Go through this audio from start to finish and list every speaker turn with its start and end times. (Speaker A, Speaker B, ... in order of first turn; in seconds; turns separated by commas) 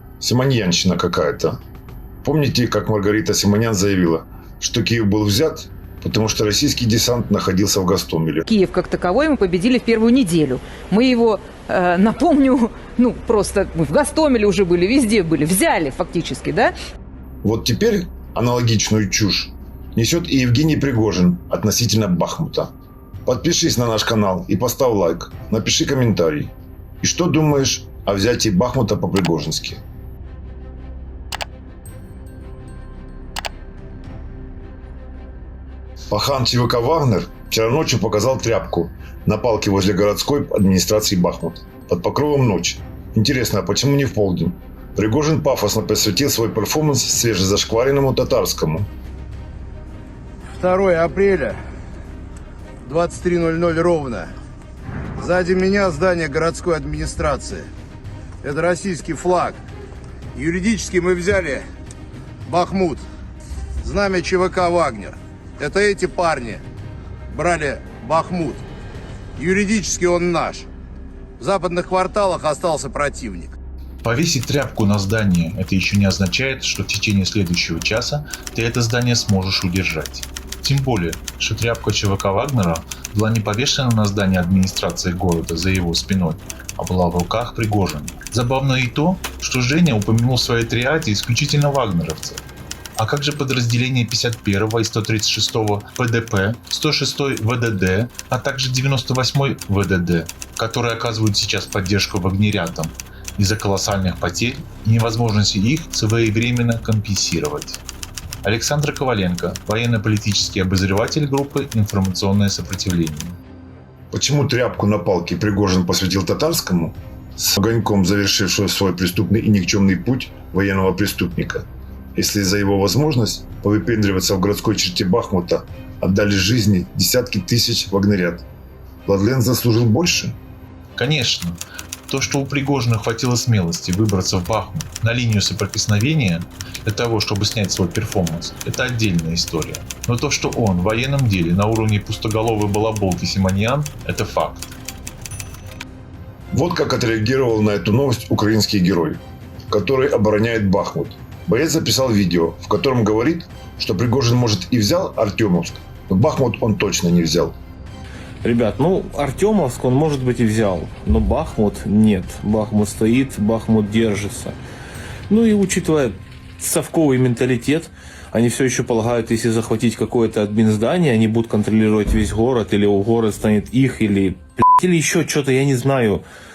Speaker A: 0.2-1.6, Speaker A: 2.2-8.4, Speaker B: 8.5-16.7, Speaker A: 17.4-22.7, Speaker A: 23.3-29.8, Speaker A: 36.1-48.9, Speaker C: 50.5-51.6, Speaker C: 52.9-54.3, Speaker C: 55.2-57.7, Speaker C: 58.4-59.6, Speaker C: 60.3-61.6, Speaker C: 62.5-63.0, Speaker C: 63.8-66.6, Speaker C: 67.3-68.7, Speaker C: 69.4-70.7, Speaker C: 71.4-73.5, Speaker D: 74.0-92.4, Speaker D: 93.0-107.8, Speaker D: 108.4-113.4, Speaker A: 114.1-128.5, Speaker A: 129.1-130.4, Speaker D: 131.0-144.8, Speaker A: 146.5-157.5, Speaker E: 158.4-164.6, Speaker E: 165.3-176.2